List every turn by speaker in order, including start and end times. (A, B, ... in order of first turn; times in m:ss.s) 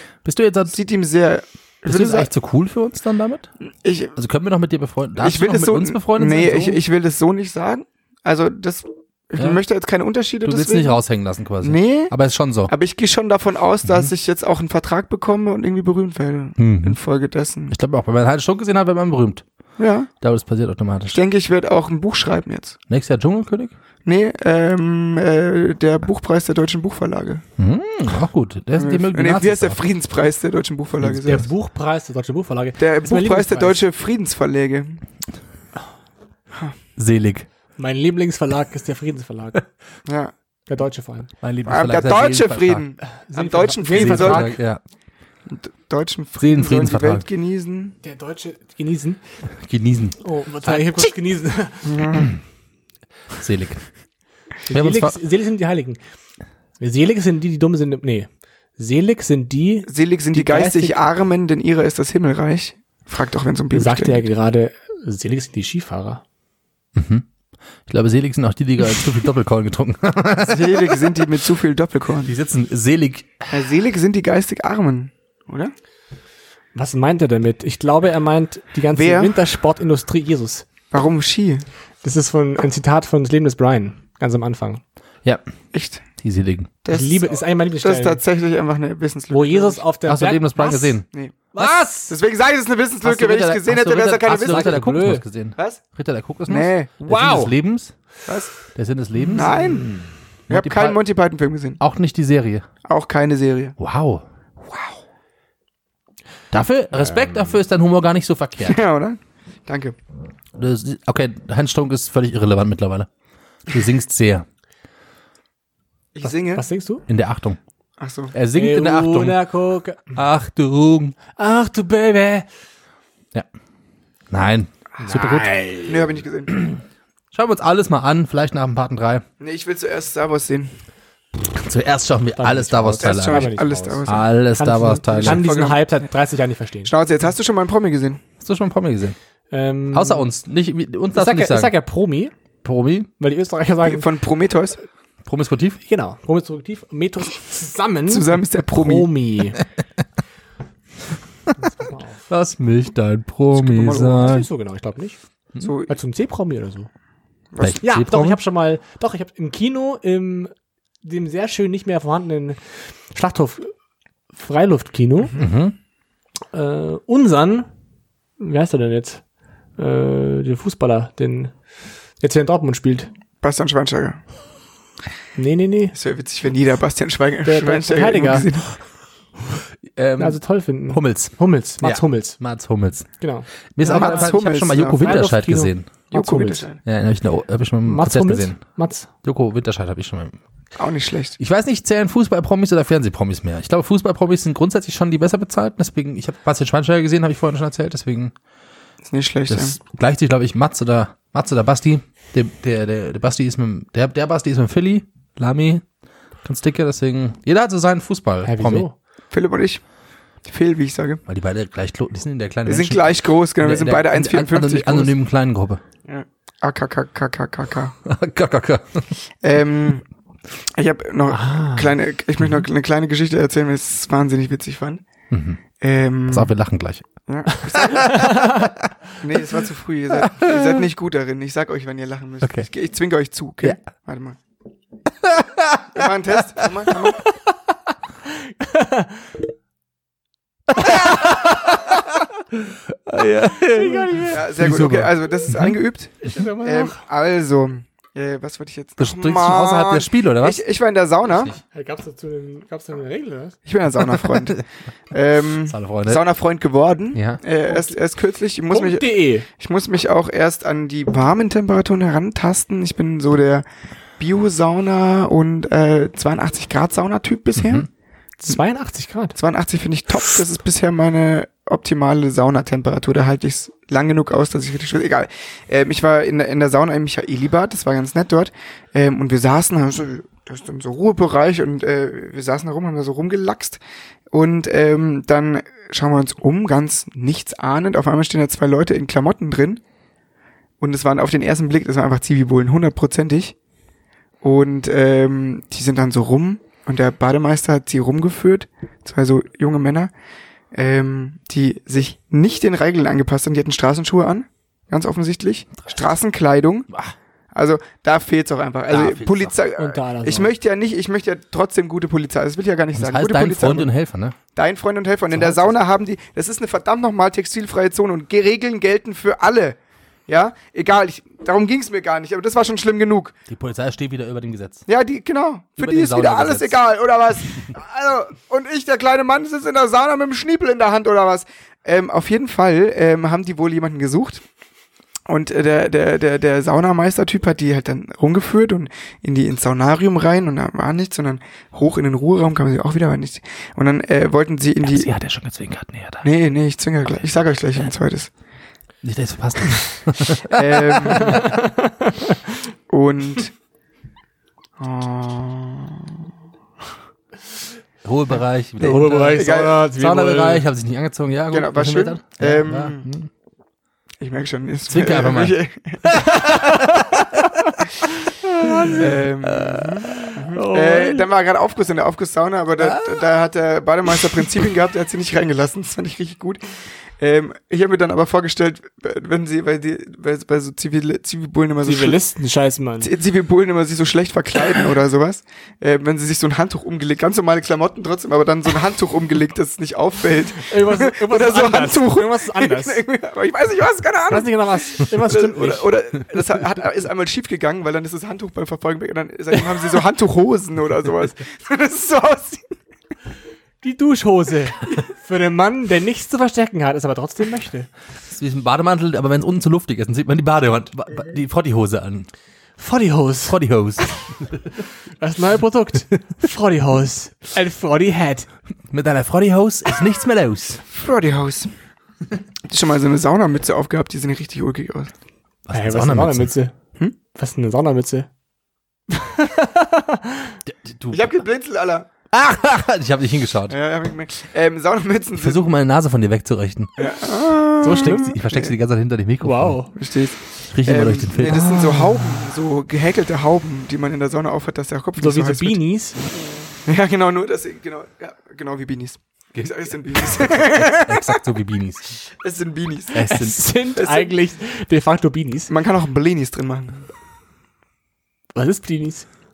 0:00.2-0:00.8 A
0:00.7-0:02.3 B
0:01.9-0:03.5 A
0:03.7-0:04.2 B
0:04.2-0:06.8 A
0:05.2-0:11.0 B
0:10.4-0:12.7 A
0:11.6-0:12.1 B
0:12.7-0:17.8 B
0:13.8-0:14.1 A
0:16.6-0:17.0 A
0:17.7-0:19.4 A
0:19.8-0:20.1 B
0:20.2-0:21.2 A
0:21.1-0:22.8 B
0:22.9-0:23.7 A
0:24.1-0:27.4 B
0:27.6-0:29.8 A
0:28.8-0:31.5 B
0:31.0-0:31.4 A
0:31.2-0:33.8 C
0:32.8-0:35.0 B
0:37.0-0:37.5 A
0:37.8-0:39.6 C
0:40.1-0:40.3 B
0:40.7-0:41.3 C
0:41.4-0:42.9 A
0:41.7-0:44.6 B
0:43.3-0:44.6 C
0:43.9-0:44.8 A
0:45.5-0:48.0 B
0:46.4-0:47.3 A
0:48.0-0:49.2 C
0:49.6-0:50.9 A
0:50.2-0:52.0 C
0:51.8-0:52.3 B
0:52.1-0:52.4 A
0:53.4-0:53.8 A
0:54.7-0:56.0 C
0:54.7-0:55.2 A
0:56.8-1:01.0 C
0:59.9-1:04.2 B
1:03.7-1:06.2 C
1:07.0-1:07.3 A
1:07.9-1:11.1 A
1:10.4-1:12.3 B
1:12.2-1:13.5 A
1:13.5-1:15.7 B
1:16.8-1:20.6 C
1:18.9-1:19.4 B
1:20.9-1:21.6 B
1:22.0-1:24.8 C
1:25.7-1:26.0 B
1:26.2-1:26.7 A
1:26.8-1:29.8 B
1:26.9-1:28.2 C
1:29.3-1:31.0 C
1:30.1-1:31.1 A
1:31.1-1:31.5 B
1:31.5-1:32.1 C
1:32.1-1:34.8 B
1:33.0-1:38.0 A
1:34.4-1:35.2 C
1:35.6-1:35.8 B
1:36.5-1:37.1 B
1:37.0-1:37.5 C
1:38.7-1:39.9 A
1:39.2-1:39.6 C
1:39.3-1:39.9 B
1:40.5-1:41.0 A
1:40.5-1:41.8 B
1:41.8-1:42.7 A
1:42.8-1:43.8 B
1:43.8-1:44.2 A
1:44.6-1:45.0 B
1:46.5-1:48.8 A
1:48.6-1:50.0 B
1:50.6-1:53.1 A
1:53.7-1:54.5 A
1:56.2-1:56.6 B
1:56.2-1:57.0 C
1:57.1-1:57.6 A
1:58.0-1:58.3 B
1:58.3-1:59.4 A
1:58.5-2:00.2 C
2:00.1-2:01.2 A
2:01.4-2:02.5 C
2:04.3-2:06.8 A
2:05.0-2:05.7 C
2:05.9-2:06.6 B
2:07.3-2:09.2 A
2:09.4-2:10.7 B
2:11.4-2:15.5 A
2:12.4-2:16.9 C
2:13.0-2:14.3 B
2:15.1-2:16.0 B
2:16.8-2:18.2 B
2:18.4-2:19.2 A
2:19.5-2:20.3 C
2:19.9-2:21.7 A
2:21.1-2:22.3 C
2:22.6-2:23.1 A
2:23.2-2:24.1 C
2:23.8-2:24.8 B
2:25.2-2:25.8 A
2:25.8-2:29.6 C
2:28.1-2:29.1 B
2:31.6-2:32.2 C
2:32.3-2:34.4 A
2:33.6-2:35.2 C
2:35.6-2:36.0 B
2:35.9-2:36.9 C
2:37.5-2:37.8 B
2:37.6-2:38.4 A
2:37.8-2:40.5 C
2:41.0-2:43.7 C
2:44.3-2:45.4 C
2:45.4-2:45.8 A
2:46.5-2:47.7 C
2:48.4-2:49.2 C
2:49.8-2:51.5 C
2:52.2-2:53.1 C
2:53.4-2:54.2 B
2:55.4-2:56.0 C
2:55.9-2:58.7 B
2:57.4-2:58.5 C
2:59.9-3:03.1 A
3:00.2-3:02.4 C
3:03.2-3:06.7 C
3:03.8-3:05.9 A
3:03.8-3:05.2 B
3:06.1-3:06.8 B
3:06.8-3:08.6 A
3:07.8-3:09.1 C
3:09.2-3:10.4 A
3:10.8-3:11.4 B
3:11.4-3:18.3 A
3:19.0-3:19.8 B
3:19.5-3:25.8 A
3:26.4-3:28.9 A
3:28.4-3:28.9 C
3:29.3-3:29.8 B
3:30.4-3:31.2 B
3:31.3-3:35.8 A
3:32.7-3:35.1 B
3:36.1-3:38.0 B
3:38.0-3:39.1 A
3:39.4-3:40.0 B
3:40.8-3:45.0 B
3:41.3-3:41.9 C
3:45.3-3:45.6 A
3:45.8-3:46.6 B
3:46.3-3:47.1 A
3:47.3-3:48.3 B
3:47.7-3:48.9 A
3:47.9-3:48.6 C
3:49.2-3:54.4 B
3:50.3-3:50.7 A
3:52.4-3:52.7 A
3:55.2-3:56.1 A
3:55.9-3:57.2 B
3:58.6-3:59.1 C
4:00.8-4:05.8 A
4:03.8-4:04.4 C
4:04.3-4:11.5 B
4:06.2-4:07.0 C
4:09.0-4:10.6 A
4:11.3-4:11.6 A
4:11.7-4:13.6 C
4:13.7-4:23.6 B
4:15.7-4:16.2 A
4:17.1-4:17.4 A
4:18.7-4:19.5 C
4:24.2-4:27.9 B
4:27.6-4:27.9 A
4:28.4-4:29.4 C
4:29.4-4:43.8 B
4:44.3-4:49.8 B
4:50.8-4:53.6 B
4:54.4-5:00.1 B
5:00.7-5:06.9 B
5:07.5-5:13.9 B
5:08.9-5:09.6 A
5:09.8-5:10.5 C
5:12.9-5:14.4 A
5:14.6-5:19.8 B
5:20.3-5:23.3 B
5:23.5-5:24.8 A
5:24.9-5:34.4 B
5:25.8-5:26.8 A
5:35.3-5:45.1 B
5:44.8-5:46.3 A
5:46.2-5:48.3 B
5:49.0-5:51.5 A
5:50.5-5:51.5 B
5:51.3-5:52.3 C
5:52.9-5:53.5 B
5:54.8-5:56.2 B
5:58.0-6:03.3 A
5:58.8-6:00.6 C
5:59.2-5:59.9 B
6:01.5-6:03.0 B
6:04.2-6:06.2 B
6:04.9-6:07.4 A
6:06.3-6:09.2 C
6:08.9-6:16.6 B
6:09.4-6:10.1 A
6:10.2-6:11.3 C
6:12.8-6:13.2 A
6:17.2-6:22.2 B
6:21.8-6:23.1 C
6:23.0-6:42.7 B
6:30.6-6:33.0 C
6:34.3-6:35.9 C
6:43.8-6:47.9 C
6:48.3-6:52.3 A
6:52.8-6:53.6 C
6:53.5-6:54.7 A
6:55.2-6:58.5 C
6:58.9-7:00.8 A
7:00.9-7:01.7 B
7:02.7-7:05.1 B
7:05.7-7:06.5 A
7:05.7-7:06.7 C
7:07.3-7:08.3 C
7:09.1-7:10.6 C
7:10.7-7:11.3 A
7:11.1-7:12.1 B
7:12.3-7:13.8 A
7:13.7-7:15.7 B
7:15.4-7:17.0 A
7:17.0-7:18.7 B
7:17.8-7:19.8 A
7:19.4-7:19.9 C
7:20.0-7:25.8 B
7:20.7-7:21.7 A
7:25.2-7:26.2 C
7:26.9-7:31.4 B
7:30.3-7:32.2 A
7:32.4-7:33.3 B
7:33.1-7:33.6 A
7:33.2-7:35.7 C
7:33.9-7:34.3 B
7:35.7-7:37.1 B
7:38.5-7:39.3 C